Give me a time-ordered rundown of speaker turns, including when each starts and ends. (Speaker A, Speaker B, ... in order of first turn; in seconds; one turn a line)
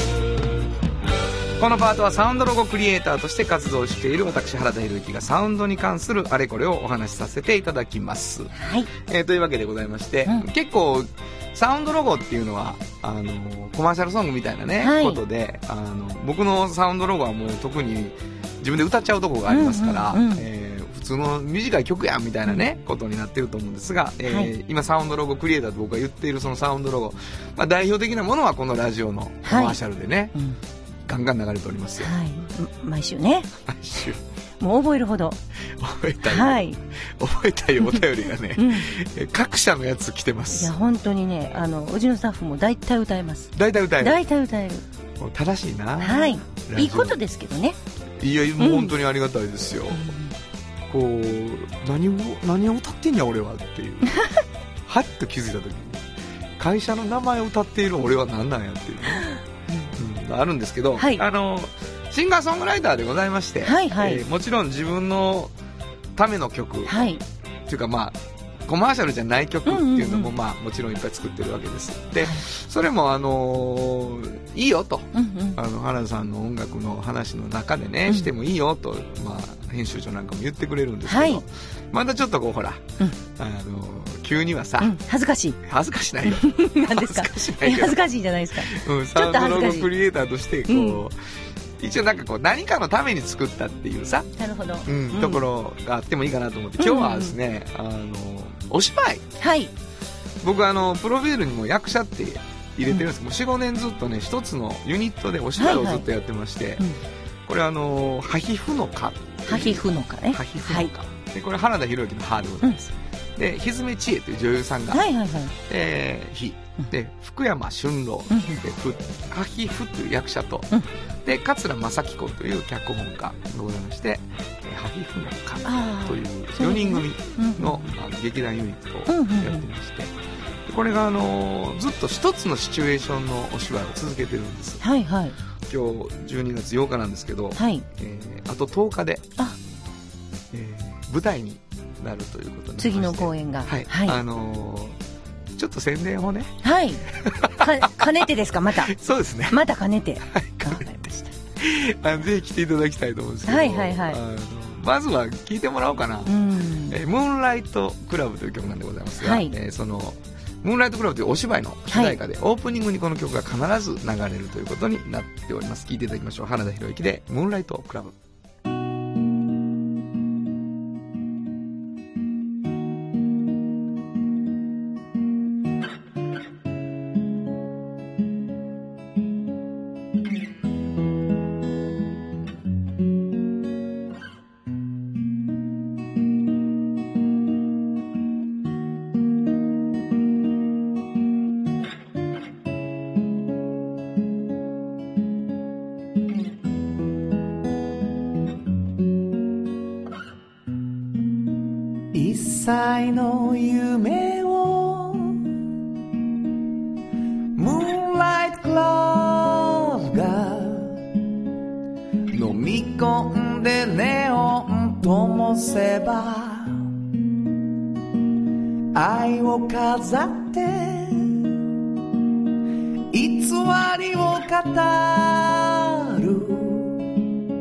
Speaker A: 1.6-30.3
Speaker B: 8.5-8.9
Speaker B: 14.8-15.2
Speaker B: 19.5-20.4
Speaker B: 29.4-29.8
Speaker B: 30.3-30.6
Speaker A: 31.1-32.1
Speaker B: 32.0-33.5
Speaker A: 33.6-34.2
Speaker B: 34.6-35.4
Speaker A: 35.8-40.7
Speaker B: 36.2-36.8
Speaker B: 38.5-38.9
Speaker B: 40.5-44.8
Speaker A: 43.5-44.2
Speaker A: 45.2-47.2
Speaker B: 46.0-47.8
Speaker A: 48.2-50.1
Speaker B: 48.6-49.0
Speaker B: 49.9-50.3
Speaker A: 50.9-54.2
Speaker A: 54.9-56.0
Speaker A: 56.6-59.3
Speaker A: 59.9-65.5
Speaker B: 61.0-61.2
Speaker B: 63.6-64.2
Speaker A: 66.2-67.0
Speaker B: 66.8-67.2
Speaker A: 67.7-84.9
Speaker B: 69.7-70.3
Speaker B: 75.1-75.6
Speaker B: 81.0-81.4
Speaker B: 84.8-85.6
Speaker A: 85.6-88.0
Speaker B: 86.2-89.9
Speaker A: 88.6-91.2
Speaker B: 90.7-91.0
Speaker A: 91.8-94.3
Speaker B: 94.4-95.5
Speaker A: 94.8-99.3
Speaker B: 96.8-97.4
Speaker B: 99.4-99.7
Speaker A: 100.4-106.8
Speaker B: 105.6-106.0
Speaker A: 107.5-115.0
Speaker B: 109.5-110.9
Speaker B: 114.9-115.5
Speaker A: 115.7-120.7
Speaker B: 118.3-118.6
Speaker A: 121.2-130.1
Speaker B: 125.6-127.8
Speaker B: 129.1-129.7
Speaker A: 130.7-134.8
Speaker B: 134.8-135.3
Speaker A: 135.7-139.3
Speaker B: 137.5-137.8
Speaker A: 140.5-145.0
Speaker B: 142.8-144.2
Speaker A: 145.6-146.6
Speaker B: 146.6-148.9
Speaker A: 147.1-148.2
Speaker A: 148.7-149.6
Speaker B: 149.5-151.3
Speaker A: 150.3-150.9
Speaker A: 151.6-156.3
Speaker B: 153.5-154.2
Speaker B: 156.2-157.0
Speaker A: 156.9-168.1
Speaker B: 159.2-159.5
Speaker B: 161.9-162.2
Speaker C: 202.1-205.5
Speaker C: 207.5-211.1
Speaker C: 212.3-216.9
Speaker C: 218.9-221.6
Speaker C: 223.1-227.2